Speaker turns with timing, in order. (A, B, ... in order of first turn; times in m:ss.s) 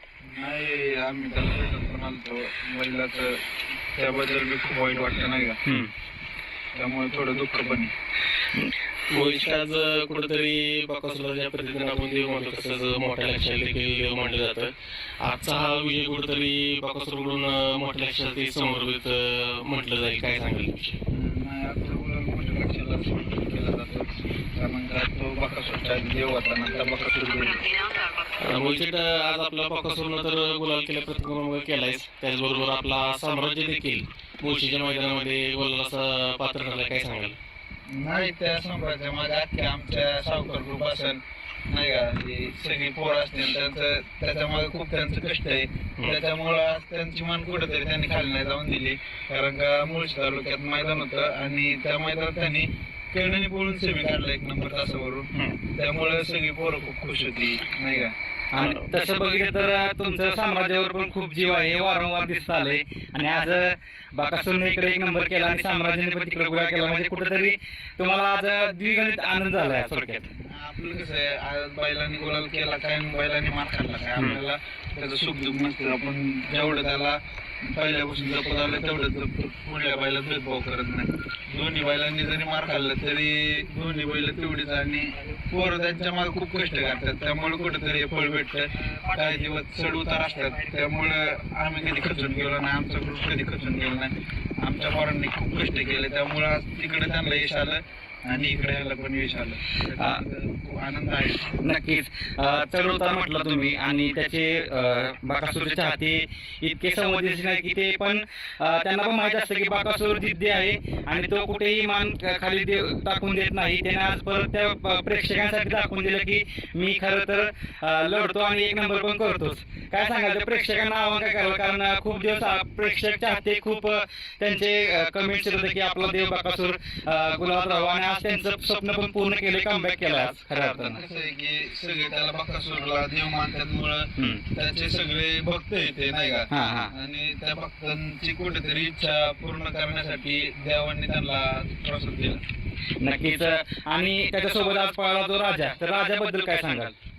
0:00.2-0:03.4 A
0:03.9-0:05.6 A
0:05.6-0:05.9 B
0:06.7-0:07.9 A
0:09.1-0:14.7 C
0:15.2-0:21.0 C
0:21.1-0:27.8 A
0:28.4-0:37.4 C
0:37.9-0:58.1 A
0:58.5-1:10.3 B
0:58.6-0:58.8 C
1:10.3-1:41.6 A
1:41.6-2:11.0 B
2:10.7-2:22.4 A
2:14.2-2:14.4 B
2:16.5-2:16.9 B
2:23.0-2:26.9 B